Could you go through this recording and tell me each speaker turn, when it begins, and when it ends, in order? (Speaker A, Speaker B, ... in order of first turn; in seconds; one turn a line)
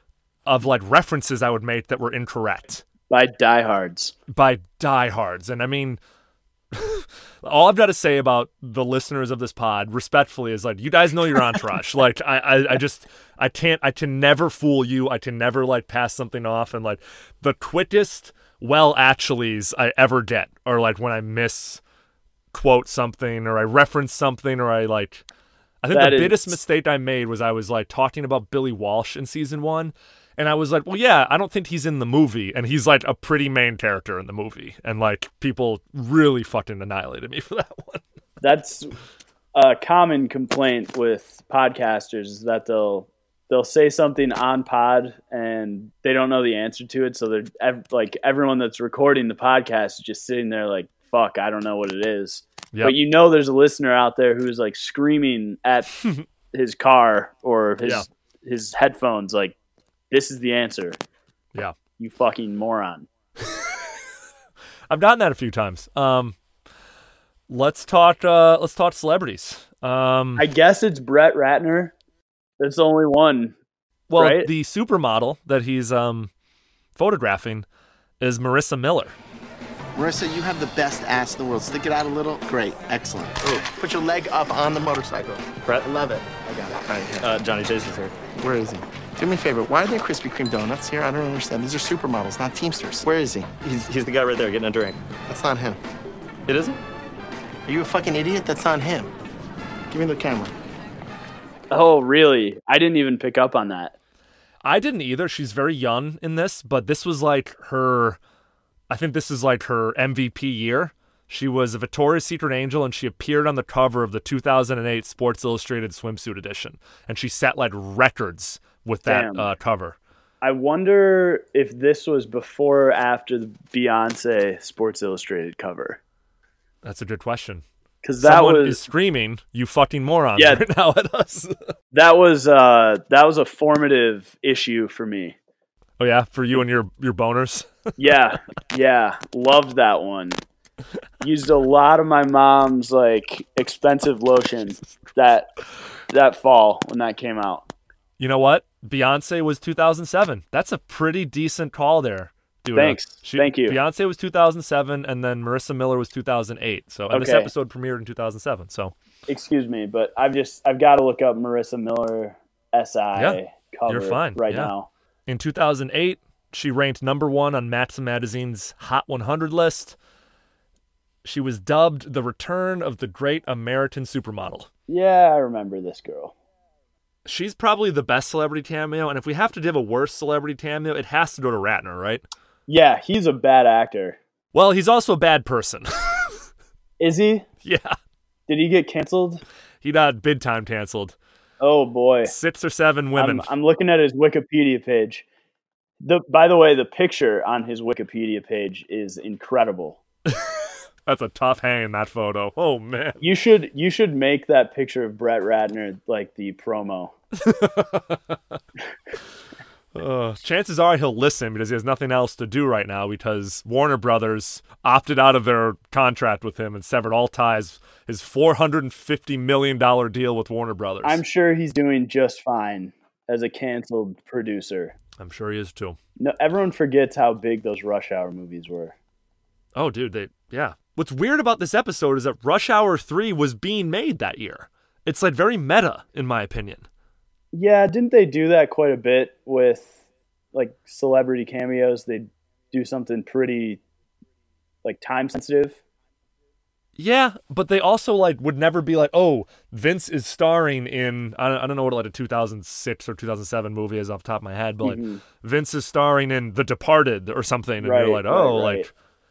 Speaker A: 0.5-2.8
Speaker B: 3.1-4.2
Speaker A: 4.3-6.0
Speaker A: 6.7-21.8
Speaker A: 22.5-25.2
Speaker A: 25.8-38.0
Speaker B: 25.9-26.6
Speaker B: 38.4-38.9
Speaker B: 39.5-55.9
Speaker B: 56.5-59.5
Speaker B: 60.1-61.0
Speaker B: 62.0-63.1
Speaker A: 64.9-66.3
Speaker A: 67.5-70.5
Speaker B: 70.4-71.9
Speaker B: 72.6-73.5
Speaker A: 74.1-76.3
Speaker B: 74.2-74.5
Speaker A: 77.0-77.7
Speaker A: 78.2-79.2
Speaker C: 80.0-87.3
Speaker D: 85.6-88.2
Speaker C: 88.4-93.5
Speaker D: 93.6-95.0
Speaker C: 95.3-95.8
Speaker D: 96.5-96.8
Speaker C: 97.7-99.1
Speaker C: 99.9-100.5
Speaker B: 101.7-104.0
Speaker A: 104.6-108.2
Speaker A: 108.9-120.0
Speaker B: 119.1-119.5
Speaker B: 120.4-126.0
Speaker A: 126.8-127.6
Speaker B: 128.0-128.8
Speaker A: 128.2-131.6
Speaker B: 130.4-130.6
Speaker B: 131.9-135.4
Speaker A: 136.0-137.9
Speaker B: 138.0-140.4
Speaker B: 141.2-145.5
Speaker B: 146.1-147.7
Speaker A: 148.2-158.9
Speaker B: 152.7-153.8
Speaker B: 157.1-157.5
Speaker B: 159.3-164.9
Speaker A: 163.2-164.7
Speaker A: 165.3-169.9
Speaker A: 171.2-174.7
Speaker B: 174.9-176.3
Speaker A: 177.3-182.2
Speaker B: 182.7-184.2
Speaker A: 184.5-186.4
Speaker B: 187.0-187.5
Speaker A: 187.6-188.0
Speaker B: 188.5-189.4
Speaker A: 189.8-191.2
Speaker B: 191.6-192.3
Speaker A: 192.2-193.5
Speaker B: 193.2-195.2
Speaker B: 196.0-200.0
Speaker A: 200.3-203.2
Speaker B: 203.2-207.2
Speaker A: 207.4-208.4
Speaker A: 209.9-221.2
Speaker B: 221.0-224.9
Speaker A: 225.2-226.0
Speaker B: 226.2-228.9
Speaker A: 229.8-236.8
Speaker B: 237.5-239.9
Speaker B: 240.5-243.8
Speaker B: 244.8-245.8
Speaker A: 247.0-258.9
Speaker B: 254.8-255.2
Speaker B: 257.8-258.9